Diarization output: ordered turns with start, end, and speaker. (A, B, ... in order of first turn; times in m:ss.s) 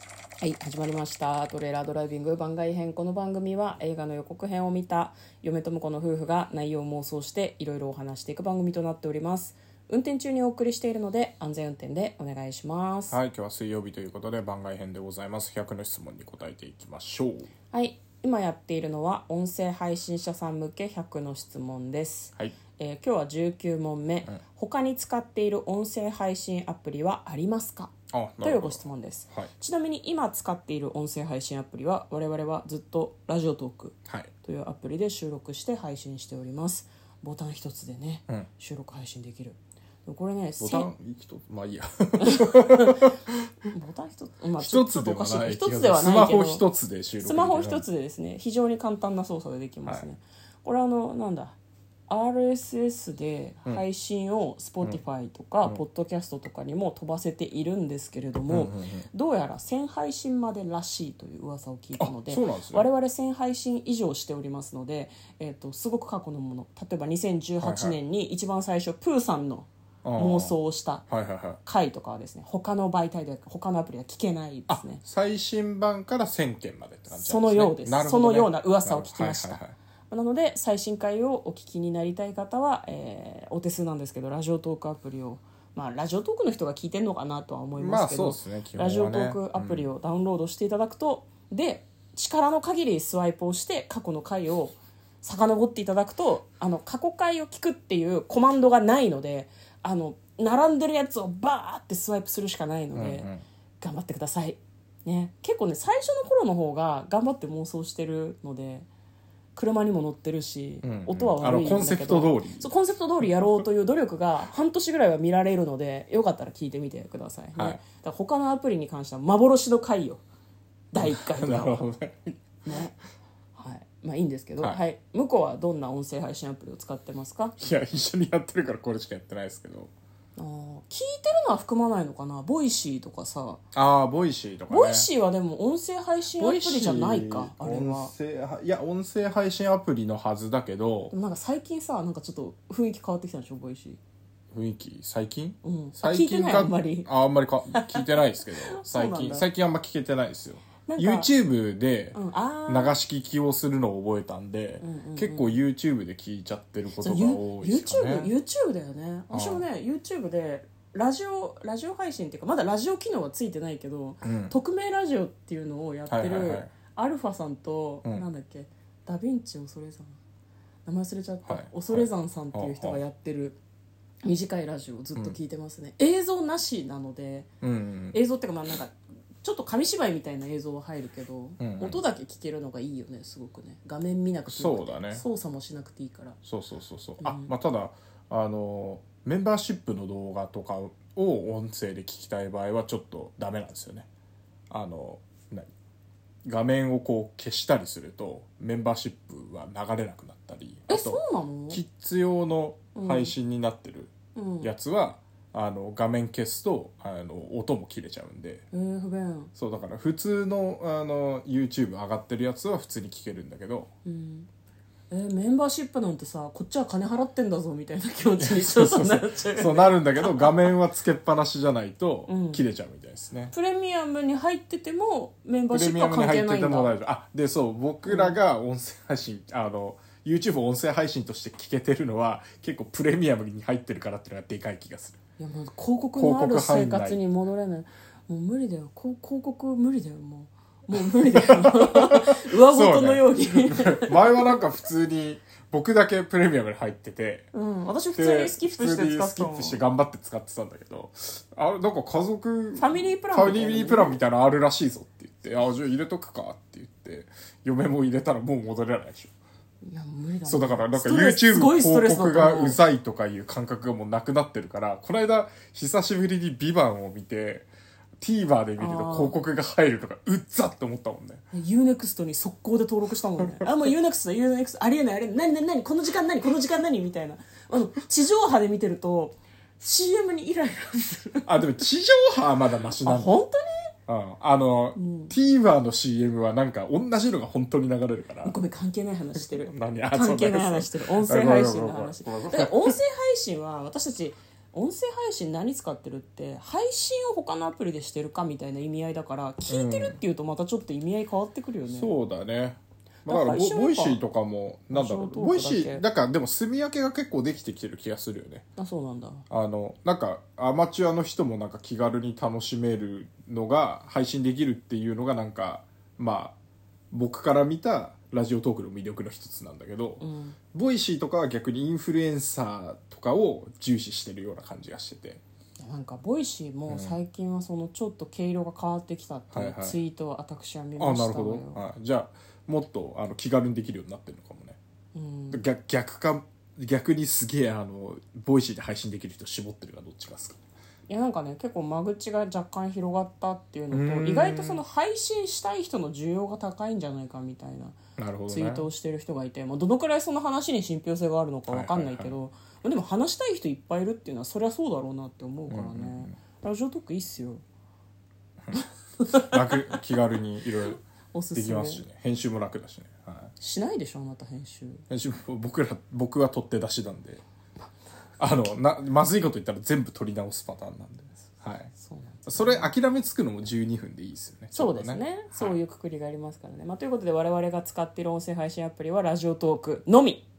0:00.4-0:13.2 A
0:13.1-0:17.5 B
0:17.7-0:40.9 A
0:28.1-0:29.5 B
0:40.6-0:43.3 B
0:42.2-0:43.1 A
0:43.7-0:46.6 A
0:44.6-0:47.8 B
0:47.2-0:51.6 A
0:52.1-1:11.0 A
0:58.5-0:59.1 B
1:02.0-1:02.9 B
1:07.6-1:08.0 B
1:10.0-1:10.6 B
1:11.1-1:11.6 B
1:11.6-1:15.0 A
1:14.7-1:19.7 B
1:17.1-1:43.3 A
1:27.8-1:29.9 B
1:42.9-1:43.4 B
1:43.8-1:48.9 A
1:49.5-2:00.2 A
1:50.8-1:52.7 B
1:53.2-1:53.5 B
2:00.9-2:01.8 A
2:01.0-2:02.4 B
2:02.6-2:03.0 A
2:03.6-2:07.6 A
2:07.6-2:09.9 B
2:10.4-2:13.6 A
2:13.7-2:15.1 B
2:14.7-2:18.1 A
2:16.4-2:21.1 B
2:21.1-2:24.0 A
2:24.5-2:38.3 B
2:25.6-2:27.1 A
2:27.7-2:29.5 A
2:30.8-2:31.3 A
2:32.1-2:33.0 A
2:34.8-2:35.6 A
2:37.0-2:50.2 A
2:39.3-2:39.6 B
2:44.2-2:44.5 B
2:46.1-2:46.7 B
2:50.8-2:53.6 A
2:51.4-2:53.0 B
2:54.2-2:57.5 A
2:57.6-2:58.2 B
2:58.1-3:06.4 A
3:01.6-3:02.0 B
3:04.5-3:05.2 B
3:06.4-3:14.1 B
3:07.2-3:07.5 A
3:14.7-3:15.7 B
3:16.4-3:28.6 B
3:20.9-3:21.8 A
3:22.9-3:23.3 A
3:24.3-3:24.7 A
3:28.7-3:29.5 A
3:29.6-3:33.9 B
3:34.0-3:34.5 A
3:35.1-3:40.7 A
3:38.4-3:43.5 B
3:42.3-3:42.6 A
3:43.5-3:46.9 A
3:45.7-3:55.2 B
3:48.0-3:48.4 A
3:55.4-4:04.6 A
3:56.2-3:57.2 B
4:01.2-4:07.5 B
4:07.5-4:09.8 A
4:08.1-4:19.3 B
4:12.8-4:14.2 A
4:19.8-4:22.8 A
4:20.5-4:27.7 B
4:28.2-4:31.4 B
4:28.8-4:29.4 A
4:31.5-4:41.6 A
4:41.4-4:43.3 B
4:43.0-4:43.9 A
4:44.1-4:48.5 B
4:45.0-4:45.3 A
4:48.4-5:02.1 A
4:49.4-4:53.0 B
4:59.7-5:00.2 B
5:01.8-5:08.7 B
5:03.2-5:04.2 A
5:04.9-5:06.0 A
5:08.8-5:09.4 A
5:09.5-5:16.5 B
5:17.1-5:25.4 B
5:20.2-5:20.6 A
5:25.8-5:31.8 A
5:26.9-5:27.2 B
5:29.5-5:30.0 B
5:31.0-5:34.8 B
5:35.1-5:35.6 A
5:35.5-5:40.6 B
5:41.1-5:48.0 A
5:43.9-5:44.8 B
5:48.2-5:48.9 B
5:48.5-5:57.6 A
5:51.7-5:52.4 B
5:55.7-5:56.3 B
5:58.7-6:01.0 B
5:58.7-6:00.0 A
6:01.3-6:02.0 A
6:01.5-6:03.5 B
6:03.6-6:05.0 A
6:05.1-6:07.4 B
6:08.4-6:11.9 B
6:11.9-6:12.9 A
6:12.4-6:15.8 B
6:14.7-6:20.4 A